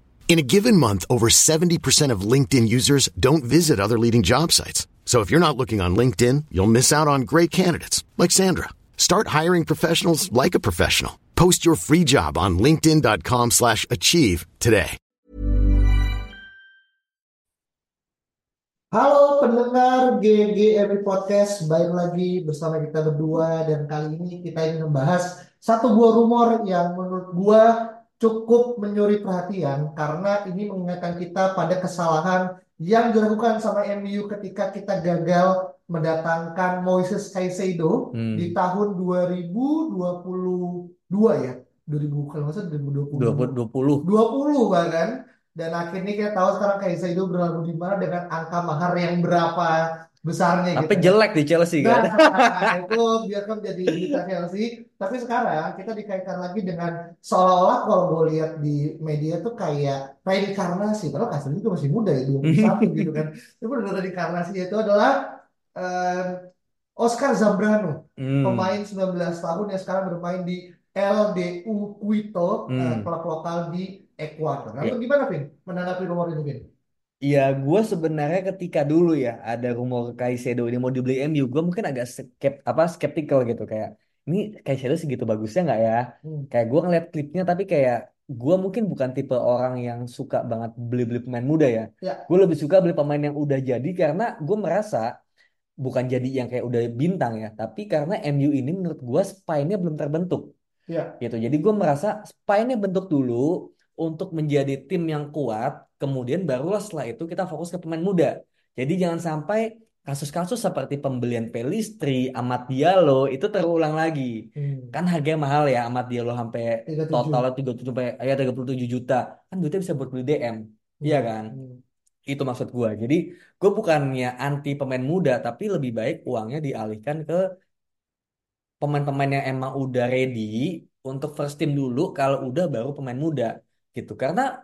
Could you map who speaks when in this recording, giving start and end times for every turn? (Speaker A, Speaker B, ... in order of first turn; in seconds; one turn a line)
Speaker A: 0.3-15.0
Speaker B: 18.9-51.1
Speaker C: 38.1-38.5
Speaker C: 43.2-44.0
Speaker C: 50.8-52.9
Speaker B: 51.8-65.2
Speaker C: 62.4-63.2
Speaker B: 65.8-66.3
Speaker B: 67.0-76.7
Speaker C: 68.2-68.7
Speaker C: 72.7-73.1
Speaker C: 77.3-95.1
Speaker C: 95.8-100.5
Speaker B: 100.9-101.1
Speaker C: 101.2-121.5
Speaker B: 114.6-115.0
Speaker B: 116.9-117.4
Speaker B: 121.0-121.8
Speaker C: 122.3-127.4
Speaker C: 128.8-134.5